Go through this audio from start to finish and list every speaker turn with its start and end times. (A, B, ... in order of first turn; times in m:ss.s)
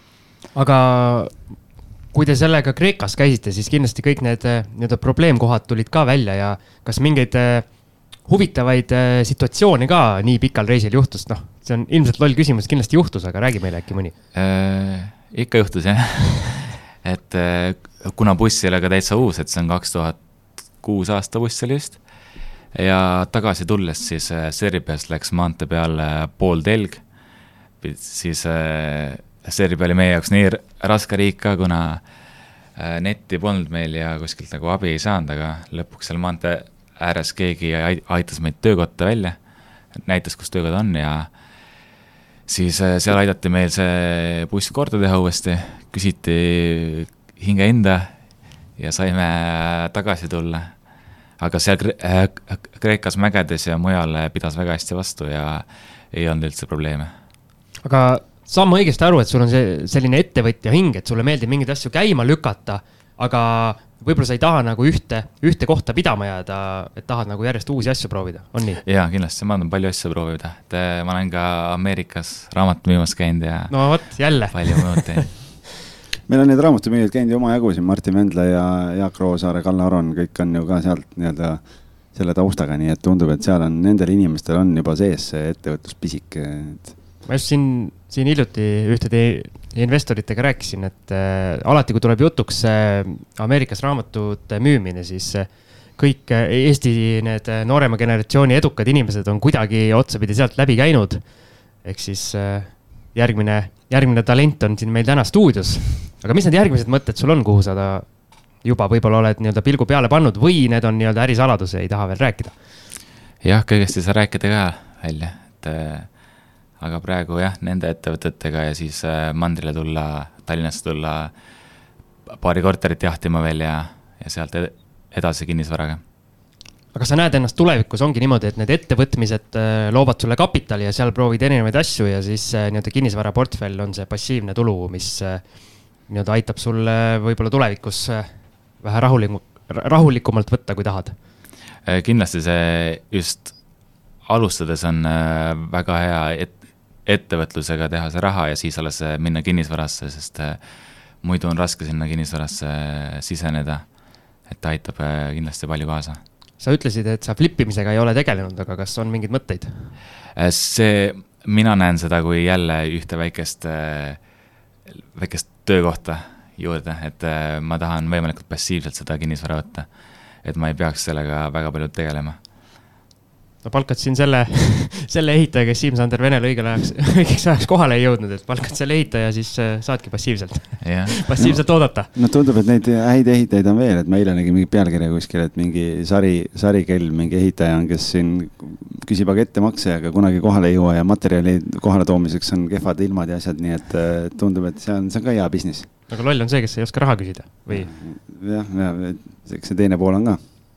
0:00.6-0:14.2 A
0:14.3-0:41.9 B
0:42.5-0:57.1 B
0:57.8-1:08.8 A
1:08.8-1:15.4 B
1:13.7-1:15.4 A
1:16.3-1:27.0 C
1:27.3-1:52.6 A
1:53.4-2:01.5 B
2:02.3-2:06.0 B
2:06.9-2:21.2 A
2:21.8-2:36.2 B
2:36.6-2:39.9 A
2:40.4-2:44.3 B
2:45.1-2:52.4 B
2:53.6-3:02.1 A
3:00.8-3:01.2 B
3:01.4-3:15.9 C
3:16.1-3:17.9 A
3:17.7-3:20.4 C